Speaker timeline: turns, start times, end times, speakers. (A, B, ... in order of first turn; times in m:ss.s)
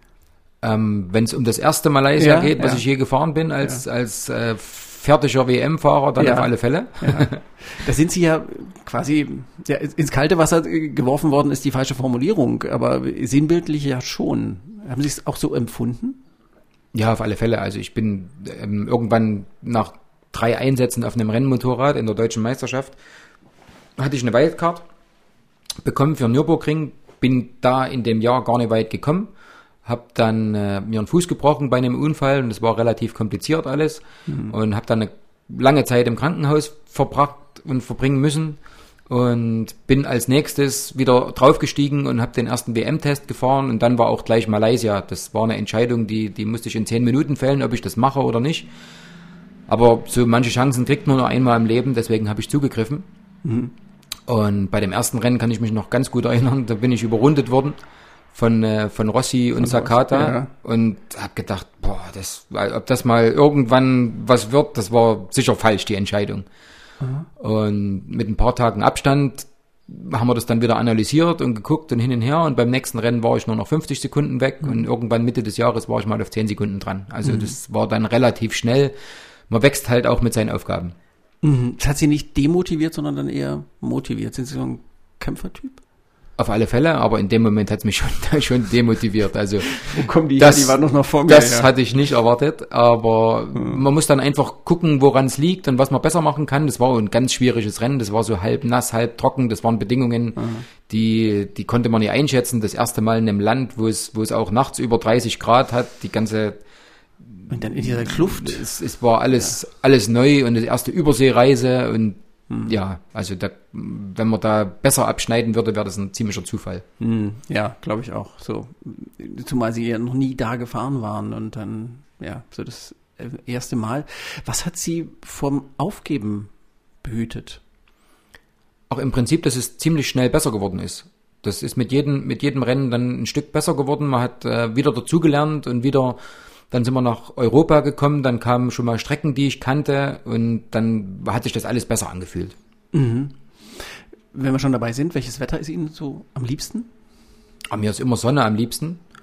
0:00.6-0:07.4 A
0:02.2-0:02.8 B
0:06.2-0:16.2 B
0:16.9-0:23.0 A
0:24.0-0:24.8 A
0:25.8-0:29.3 A
0:29.8-0:48.7 A
0:34.3-0:34.5 B
0:49.7-0:53.1 A
0:53.4-0:53.7 B
0:54.3-0:57.8 A
0:58.3-1:06.5 A
0:59.6-1:00.5 B
1:07.0-1:07.3 B
1:07.4-1:18.9 A
1:17.2-1:17.5 B
1:19.5-1:21.0 A
1:21.4-1:25.8 B
1:26.4-1:46.6 A
1:29.6-1:31.7 B
1:33.6-1:33.8 B
1:40.4-1:40.6 B
1:47.3-1:56.8 A
1:47.5-1:48.7 B
1:57.0-2:06.5 B
2:07.0-2:07.6 B
2:08.9-2:16.2 A
2:16.7-2:22.6 A
2:22.9-2:26.9 B
2:27.7-2:29.0 A